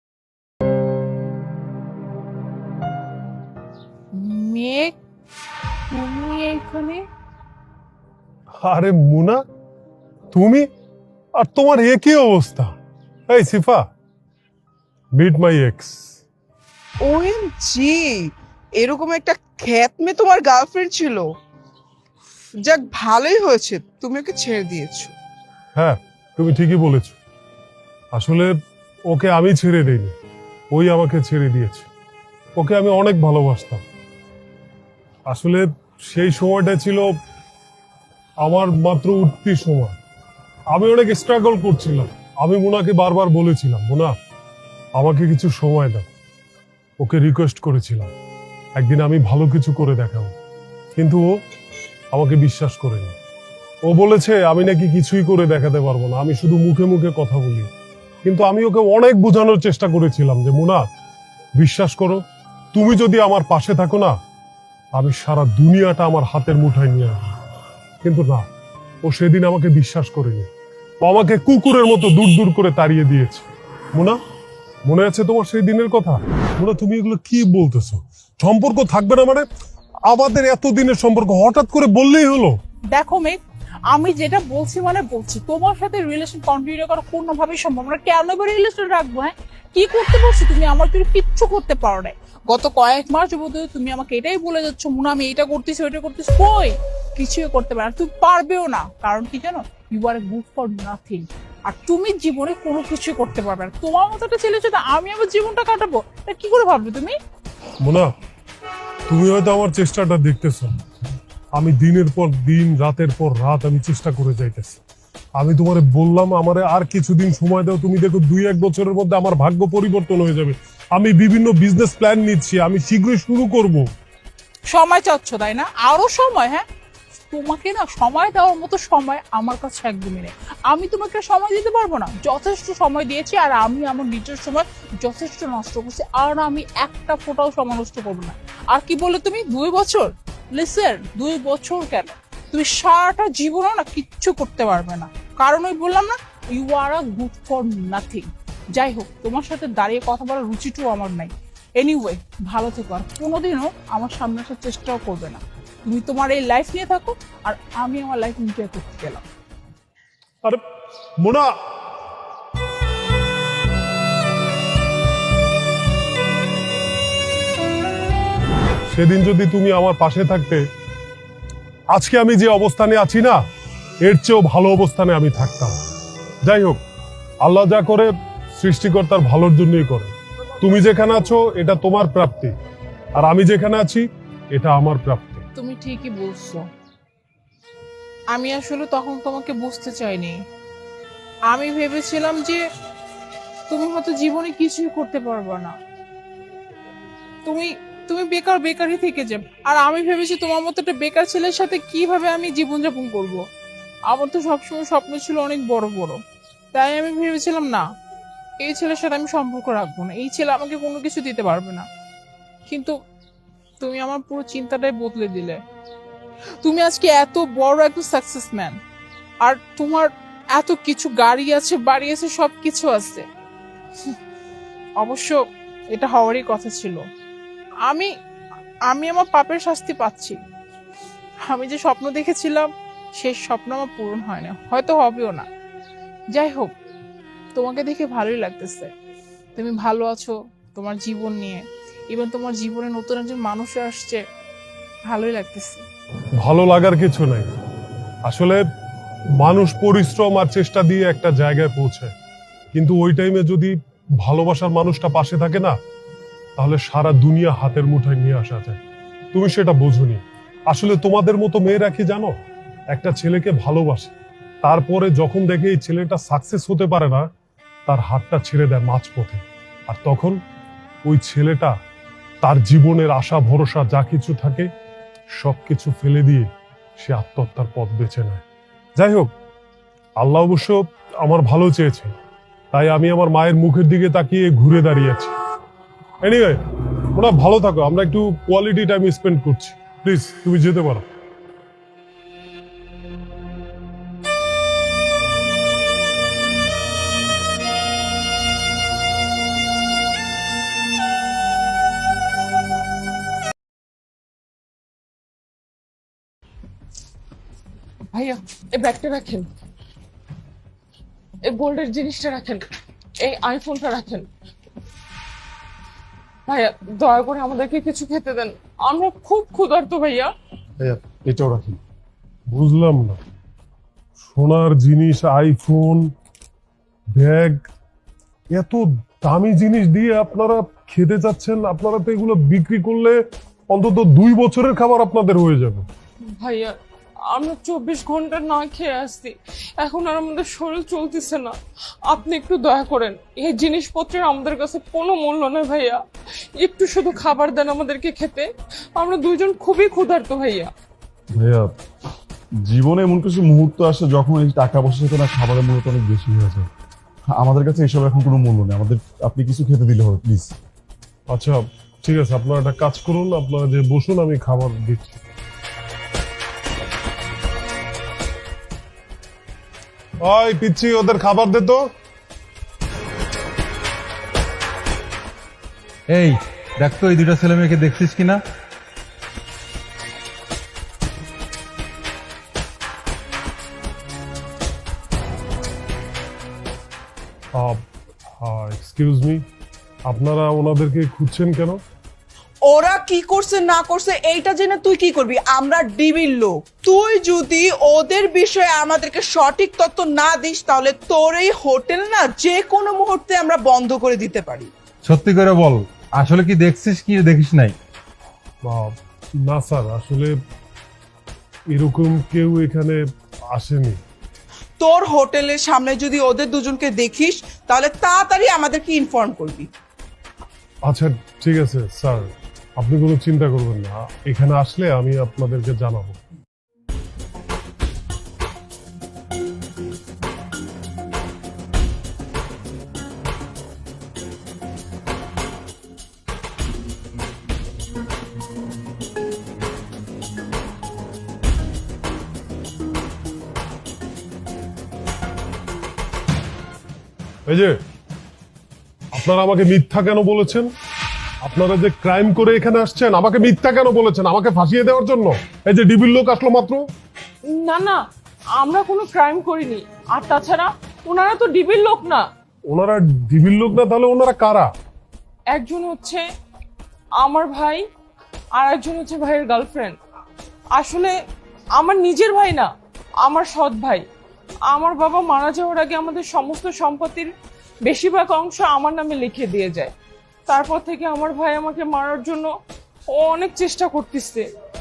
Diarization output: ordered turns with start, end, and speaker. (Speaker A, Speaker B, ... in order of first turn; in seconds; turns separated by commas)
Speaker A: 4.1-5.0, Speaker A: 5.9-7.1, Speaker B: 8.6-9.4, Speaker B: 10.3-10.7, Speaker B: 11.3-12.7, Speaker B: 13.3-13.9, Speaker B: 15.1-16.0, Speaker C: 17.0-21.3, Speaker C: 22.6-25.1, Speaker B: 25.8-27.2, Speaker B: 28.1-28.6, Speaker B: 29.1-30.1, Speaker B: 30.7-31.9, Speaker B: 32.6-33.8, Speaker B: 35.3-37.1, Speaker B: 38.4-40.0, Speaker B: 40.7-44.2, Speaker B: 45.0-46.1, Speaker B: 47.0-48.1, Speaker B: 48.8-50.3, Speaker B: 51.0-51.4, Speaker B: 52.1-53.2, Speaker B: 53.8-57.7, Speaker B: 58.2-60.9, Speaker B: 61.6-64.2, Speaker B: 64.9-67.3, Speaker B: 68.0-68.5, Speaker B: 69.0-70.5, Speaker B: 71.0-74.2, Speaker B: 74.8-79.5, Speaker B: 80.1-82.6, Speaker A: 82.9-107.2, Speaker B: 107.8-108.1, Speaker B: 109.1-110.8, Speaker B: 111.5-114.8, Speaker B: 115.4-123.9, Speaker A: 124.7-126.6, Speaker A: 127.3-159.2, Speaker B: 161.2-161.6, Speaker B: 168.9-170.7, Speaker B: 171.9-173.4, Speaker B: 174.0-175.8, Speaker B: 176.4-176.8, Speaker B: 177.4-182.6, Speaker B: 183.2-185.5, Speaker A: 185.6-186.7, Speaker A: 188.3-190.4, Speaker A: 191.5-192.6, Speaker A: 193.7-195.8, Speaker A: 197.5-203.4, Speaker A: 204.1-206.2, Speaker A: 206.7-207.9, Speaker A: 208.6-211.9, Speaker A: 212.7-212.9, Speaker A: 213.8-215.6, Speaker A: 216.6-218.8, Speaker A: 219.4-223.2, Speaker A: 225.0-227.0, Speaker A: 227.8-228.1, Speaker A: 228.9-230.4, Speaker A: 231.5-235.5, Speaker A: 236.3-236.8, Speaker A: 237.6-238.9, Speaker A: 239.6-244.2, Speaker A: 245.1-245.8, Speaker B: 246.4-247.5, Speaker B: 248.2-248.7, Speaker B: 249.4-252.1, Speaker B: 252.7-255.8, Speaker B: 256.6-258.8, Speaker B: 259.3-262.4, Speaker B: 262.9-267.3, Speaker B: 267.9-270.4, Speaker B: 271.0-271.8, Speaker B: 272.4-274.7, Speaker B: 275.3-278.4, Speaker B: 279.0-279.3, Speaker B: 280.2-282.1, Speaker B: 282.7-285.3, Speaker B: 286.2-291.1, Speaker D: 308.1-309.5, Speaker D: 311.4-312.6, Speaker D: 313.2-314.3, Speaker D: 316.5-320.3, Speaker E: 320.8-321.8, Speaker B: 322.5-323.2, Speaker B: 324.2-326.1, Speaker B: 327.1-327.7, Speaker B: 328.5-335.9, Speaker D: 336.2-346.0, Speaker D: 346.6-350.7, Speaker E: 351.3-351.8, Speaker E: 352.6-356.7, Speaker E: 357.3-360.6, Speaker B: 361.3-365.2, Speaker B: 370.2-371.9, Speaker F: 376.1-378.4, Speaker B: 387.6-387.8, Speaker B: 388.4-389.4, Speaker B: 390.1-391.8, Speaker C: 392.7-404.7, Speaker F: 405.0-407.8, Speaker B: 408.6-410.4, Speaker B: 411.7-414.0, Speaker C: 414.8-419.7, Speaker B: 420.9-426.2, Speaker B: 447.5-447.8, Speaker B: 449.1-450.7, Speaker B: 451.4-456.9, Speaker D: 457.4-458.0, Speaker D: 458.6-462.2, Speaker B: 462.7-464.7, Speaker D: 465.5-466.3, Speaker D: 467.2-467.9, Speaker D: 468.6-470.0, Speaker D: 470.7-471.2, Speaker D: 471.8-472.7, Speaker D: 473.2-474.1, Speaker D: 474.7-477.3, Speaker D: 477.9-479.9, Speaker D: 480.5-482.5, Speaker D: 483.1-484.5